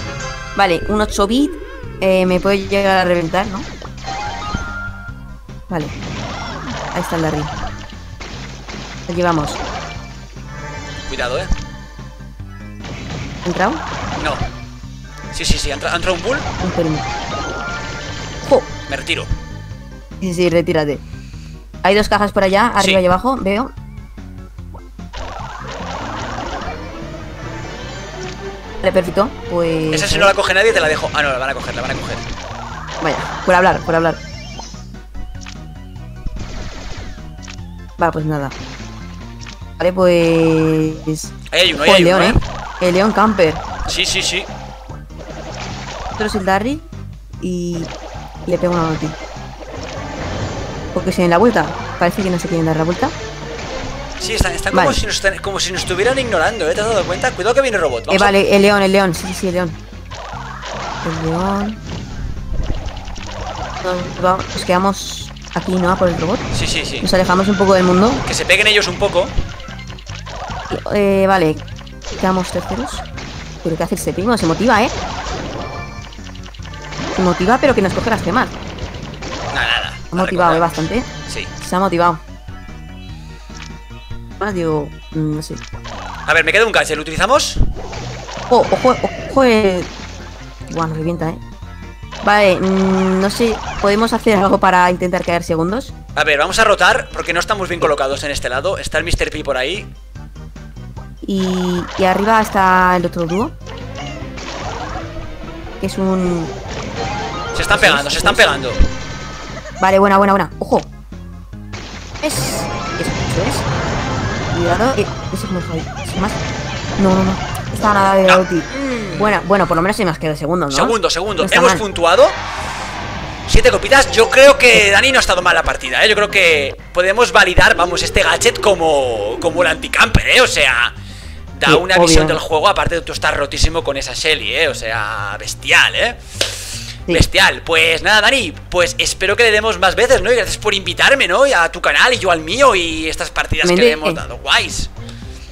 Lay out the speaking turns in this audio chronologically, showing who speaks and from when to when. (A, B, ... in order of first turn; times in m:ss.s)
0:00.6-0:03.7 A
0:06.9-0:07.5 A
0:09.1-0:09.6 A
0:11.1-0:11.5 B
0:13.4-0:13.8 A
0:14.2-0:14.4 B
0:15.3-0:16.4 B
0:16.6-0:17.1 A
0:18.4-0:18.7 A
0:18.9-0:19.3 B
0:20.2-0:21.0 A
0:21.8-0:23.7 A
0:28.8-0:30.3 A
0:29.9-0:32.3 B
0:33.0-0:34.2 A
0:38.0-0:38.5 A
0:39.8-0:43.6 A
0:41.5-0:42.4 B
0:43.8-0:44.5 B
0:46.1-0:46.8 A
0:47.4-0:47.9 A
0:48.4-0:49.2 A
0:50.9-0:53.1 A
0:54.2-0:58.3 B
0:54.7-0:55.0 A
0:58.1-0:59.8 A
1:01.0-1:01.8 A
1:03.8-1:06.5 A
1:06.5-1:07.1 B
1:07.0-1:08.2 A
1:08.2-1:09.3 B
1:10.7-1:11.6 A
1:12.1-1:13.0 A
1:13.6-1:14.9 A
1:17.1-1:18.5 A
1:19.5-1:21.5 B
1:20.1-1:22.2 A
1:24.4-1:25.6 A
1:26.3-1:27.6 B
1:28.5-1:29.9 A
1:30.7-1:31.4 A
1:32.2-1:35.9 A
1:36.2-1:39.9 B
1:41.2-1:43.5 A
1:45.8-1:46.5 A
1:47.5-1:48.8 B
1:47.7-1:48.6 A
1:49.8-1:50.9 A
1:52.2-1:53.7 A
1:54.5-1:56.4 A
1:57.0-2:01.8 A
1:58.2-1:59.3 B
2:00.7-2:02.4 B
2:03.5-2:10.9 B
2:11.5-2:24.9 B
2:11.6-2:12.4 A
2:23.6-2:24.2 A